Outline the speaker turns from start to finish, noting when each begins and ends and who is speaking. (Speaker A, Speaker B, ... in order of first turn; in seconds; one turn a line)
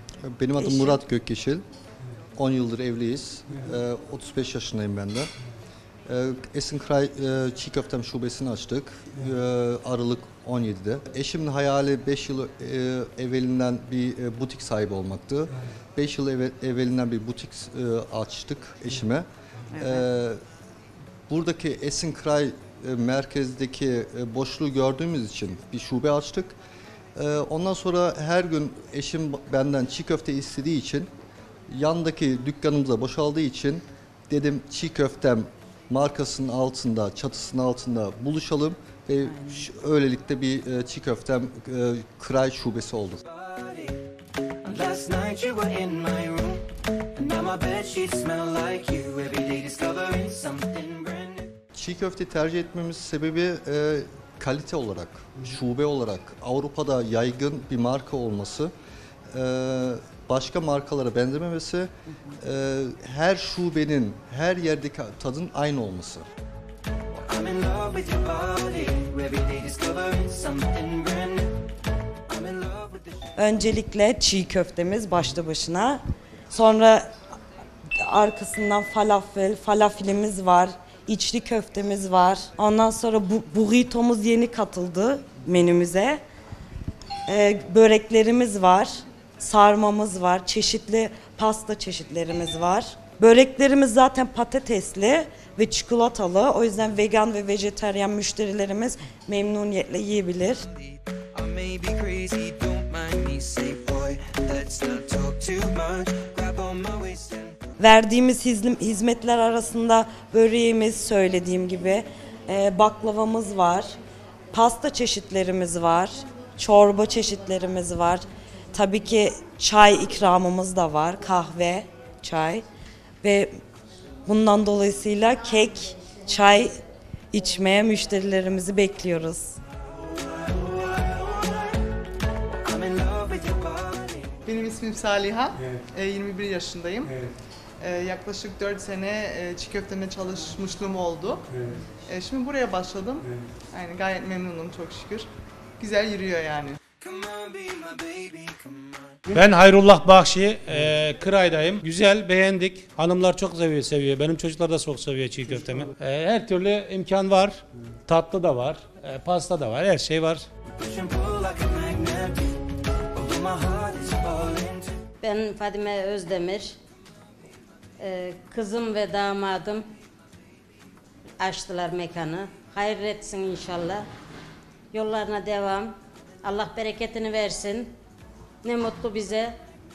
Speaker A: 0.2-1.6
Speaker B: 0.6-1.0
Speaker A: 2.4-5.3
Speaker A: 6.1-19.3
Speaker B: 19.8-20.1
Speaker A: 19.8-20.4
Speaker A: 21.3-26.6
Speaker A: 27.2-31.1
Speaker A: 31.7-43.2
Speaker C: 43.3-44.0
Speaker C: 44.6-51.5
Speaker A: 51.7-58.7
Speaker A: 59.3-66.3
Speaker C: 67.2-71.5
Speaker C: 72.3-73.2
Speaker B: 73.4-77.1
Speaker B: 78.0-86.2
Speaker B: 87.3-100.7
Speaker C: 101.3-107.6
Speaker B: 107.8-114.0
Speaker B: 114.5-122.7
Speaker B: 123.2-123.6
Speaker B: 124.3-126.7
Speaker B: 127.3-129.6
Speaker C: 132.7-134.2
Speaker D: 134.4-137.2
Speaker D: 137.8-141.5
Speaker D: 142.1-145.3
Speaker D: 145.8-146.8
Speaker C: 147.0-149.2
Speaker E: 149.3-160.5
Speaker C: 160.8-164.9
Speaker F: 165.2-166.8
Speaker F: 168.0-169.9
Speaker F: 171.4-174.1
Speaker F: 174.9-177.9
Speaker F: 178.6-179.6